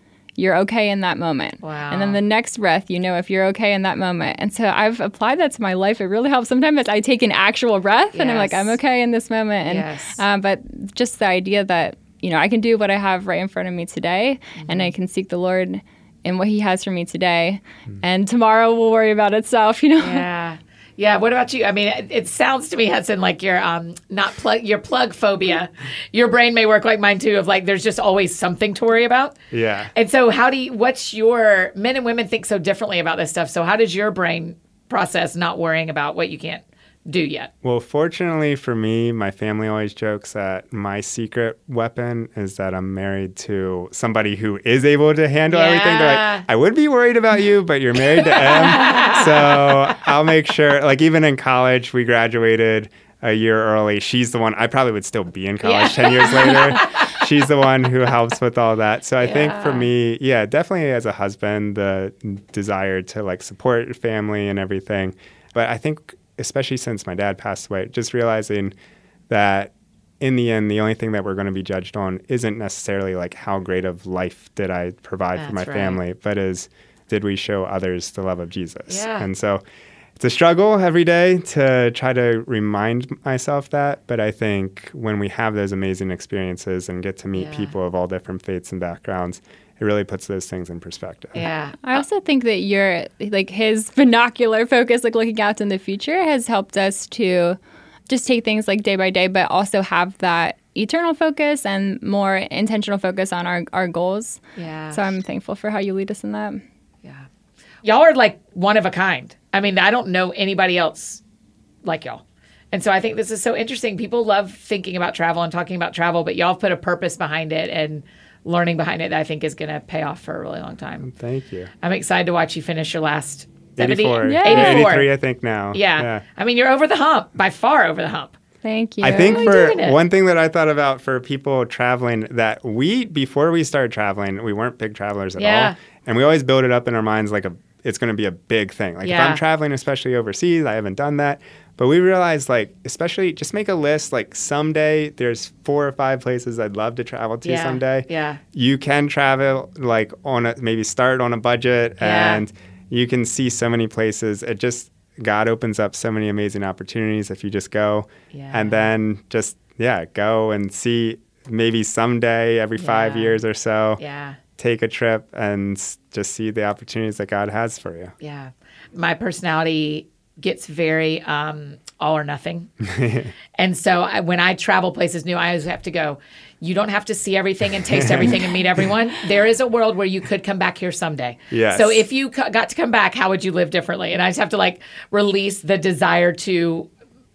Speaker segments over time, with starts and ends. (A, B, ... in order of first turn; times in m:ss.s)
0:00.4-0:20.2 A
0:01.6-0:02.2 B
0:08.1-0:08.8 B
0:09.6-0:10.2 B
0:14.6-0:14.9 B
0:20.0-0:29.4 B
0:29.5-0:29.9 C
0:29.9-0:37.5 B
0:37.6-1:08.7 C
0:45.5-0:46.4 B
0:48.1-0:49.7 B
0:55.6-0:57.2 B
0:59.2-0:59.9 B
1:09.3-1:19.6 C
1:15.4-1:16.0 B
1:18.9-1:19.3 B
1:20.2-1:31.4 C
1:27.3-1:27.7 B
1:31.3-1:32.0 B
1:31.8-1:37.6 A
1:38.1-1:44.4 A
1:44.6-1:45.1 B
1:44.9-1:46.6 A
1:47.8-1:51.2 B
1:51.8-2:01.1 B
2:01.0-2:01.7 C
2:01.8-2:05.1 B
2:03.8-2:06.2 C
2:04.2-2:04.9 A
2:05.7-2:08.4 B
2:08.6-2:09.6 A
2:09.0-2:44.0 C
2:09.1-2:10.0 B
2:15.4-2:15.7 B
2:19.0-2:19.4 B
2:27.4-2:28.4 B
2:32.0-2:32.4 B
2:38.3-2:38.9 B
2:42.8-2:43.4 B
2:44.0-2:44.4 B
2:44.6-2:48.1 C
2:48.2-2:52.7 B
2:52.8-2:53.3 C
2:53.6-3:06.9 B
2:57.9-2:58.4 C
3:01.5-3:02.0 C